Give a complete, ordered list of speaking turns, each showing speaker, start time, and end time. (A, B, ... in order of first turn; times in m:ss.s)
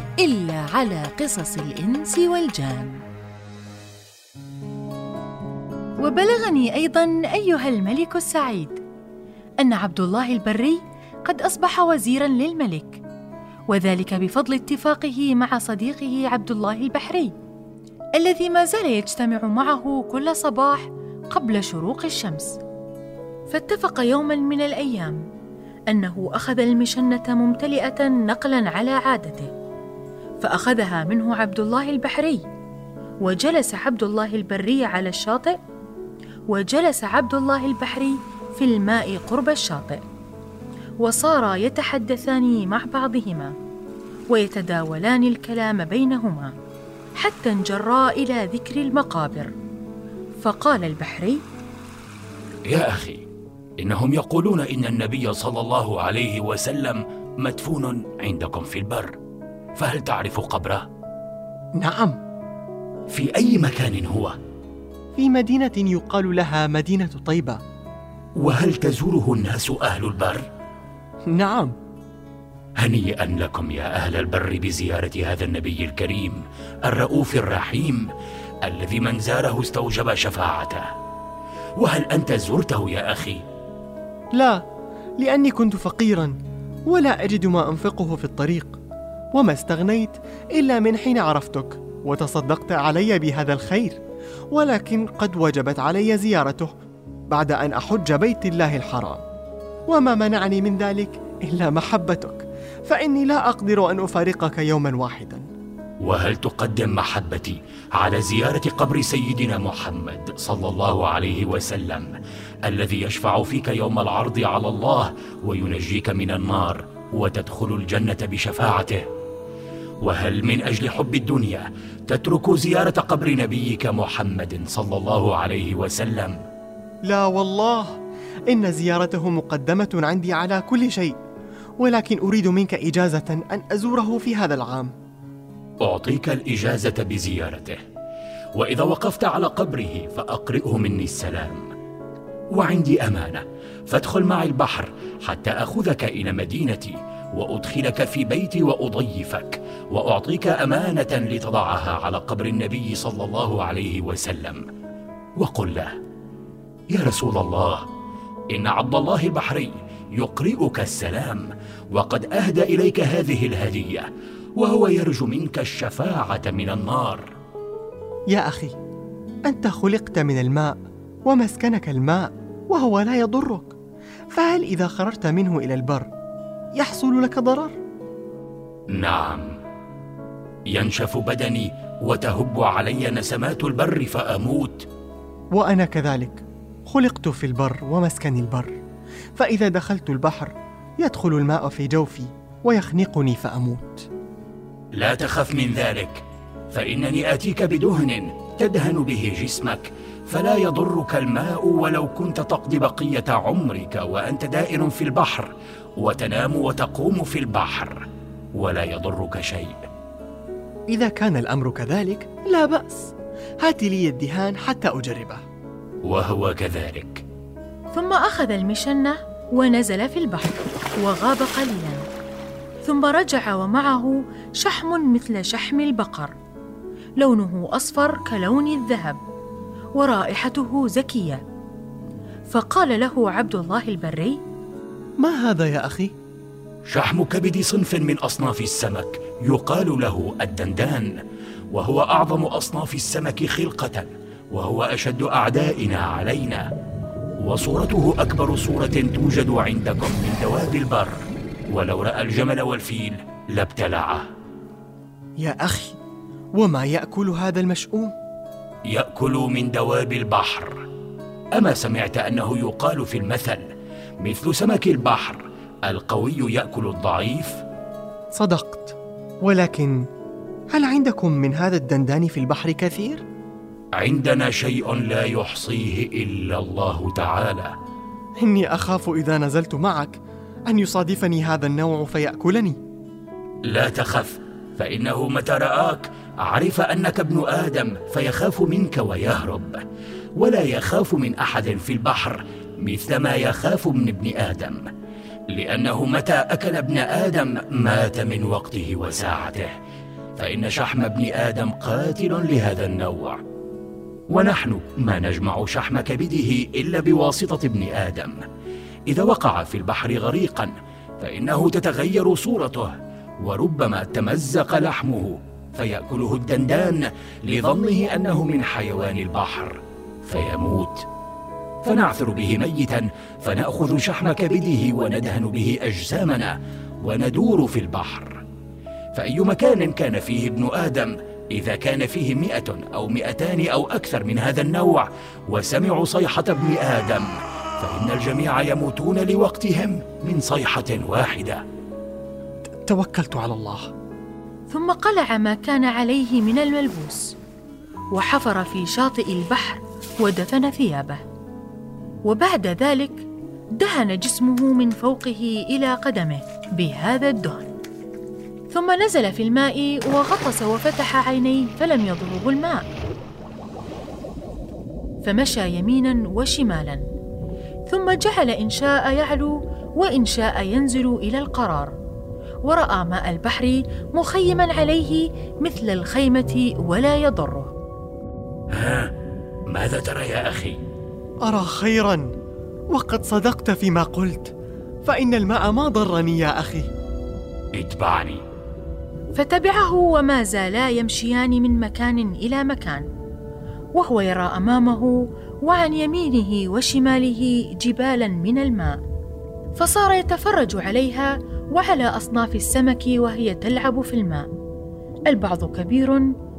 0:00.2-0:03.0 A
0:06.0-0:08.8 A
0:09.6-0:13.0 A
0:13.7-0:17.3 A
0:18.2-0:22.6 A
0:23.5-0:25.2 A
0:25.9-0:29.5 A
0:30.4-0:32.4 A
0:33.2-0:35.6 A
0:36.5-0:40.0 A
0:41.0-0:43.5 A
0:44.3-0:46.5 A
0:47.2-0:49.5 A
0:50.4-0:51.4 A
0:52.7-0:53.3 B
0:53.8-0:59.2 B
0:59.8-1:00.9 B
1:01.8-1:02.2 C
1:03.1-1:04.3 B
1:05.2-1:07.6 C
1:08.4-1:10.4 B
1:11.3-1:11.7 C
1:12.8-1:18.1 B
1:18.6-1:20.8 B
1:21.8-1:23.4 B
1:24.4-1:24.6 C
1:25.2-1:26.3 C
1:26.9-1:28.8 C
1:29.4-1:34.0 C
1:34.5-1:36.7 C
1:37.3-1:39.2 C
1:39.9-1:45.4 C
1:46.0-1:52.2 B
1:52.7-1:59.0 B
2:00.0-2:06.4 B
2:07.1-2:08.0 C
2:08.5-2:11.2 C
2:11.8-2:14.9 C
2:15.8-2:17.8 B
2:18.6-2:21.7 B
2:22.5-2:34.6 B
2:35.4-2:35.9 B
2:36.9-2:37.8 B
2:38.5-2:47.3 B
2:48.3-2:48.8 C
2:49.5-2:53.7 C
2:54.3-2:56.1 C
2:56.8-2:57.7 C
2:58.9-2:59.5 B
3:00.7-3:04.8 B
3:05.5-3:08.7 C
3:09.4-3:14.1 C
3:14.9-3:28.0 B
3:28.6-3:29.8 B
3:30.9-3:35.4 C
3:36.0-3:37.2 B
3:37.9-3:42.0 A
3:42.8-3:46.3 A
3:47.2-3:49.2 A
3:50.0-3:51.4 A
3:52.5-3:54.4 A
3:55.2-3:56.1 C
3:56.9-4:01.2 B
4:01.7-4:06.6 B
4:07.4-4:14.2 B
4:15.4-4:16.0 C
4:16.5-4:18.1 C
4:18.9-4:20.8 B
4:21.5-4:23.6 B
4:24.2-4:27.6 B
4:28.3-4:30.0 C
4:30.7-4:33.2 C
4:34.0-4:37.7 B
4:38.4-4:42.8 C
4:43.6-4:49.8 B
4:50.4-4:54.9 B
4:55.5-4:59.7 B
5:00.4-5:03.4 B
5:04.3-5:08.4 B
5:09.1-5:21.0 B
5:21.8-5:28.4 B
5:29.1-5:37.3 B
5:37.8-5:41.6 B
5:42.8-5:43.9 C
5:44.7-5:47.3 A
5:48.1-5:51.2 A
5:52.2-5:57.7 A
5:58.7-6:02.8 A
6:05.2-6:07.0 A
6:07.9-6:12.0 A
6:12.6-6:17.7 A
6:18.7-6:19.1 B
6:19.7-6:20.8 B
6:21.4-6:22.3 C
6:22.9-6:24.5 C
6:25.0-6:26.9 C
6:27.7-6:28.4 B
6:29.3-6:33.0 A
6:33.9-6:39.0 A
6:39.8-6:44.5 A
6:45.3-6:46.2 A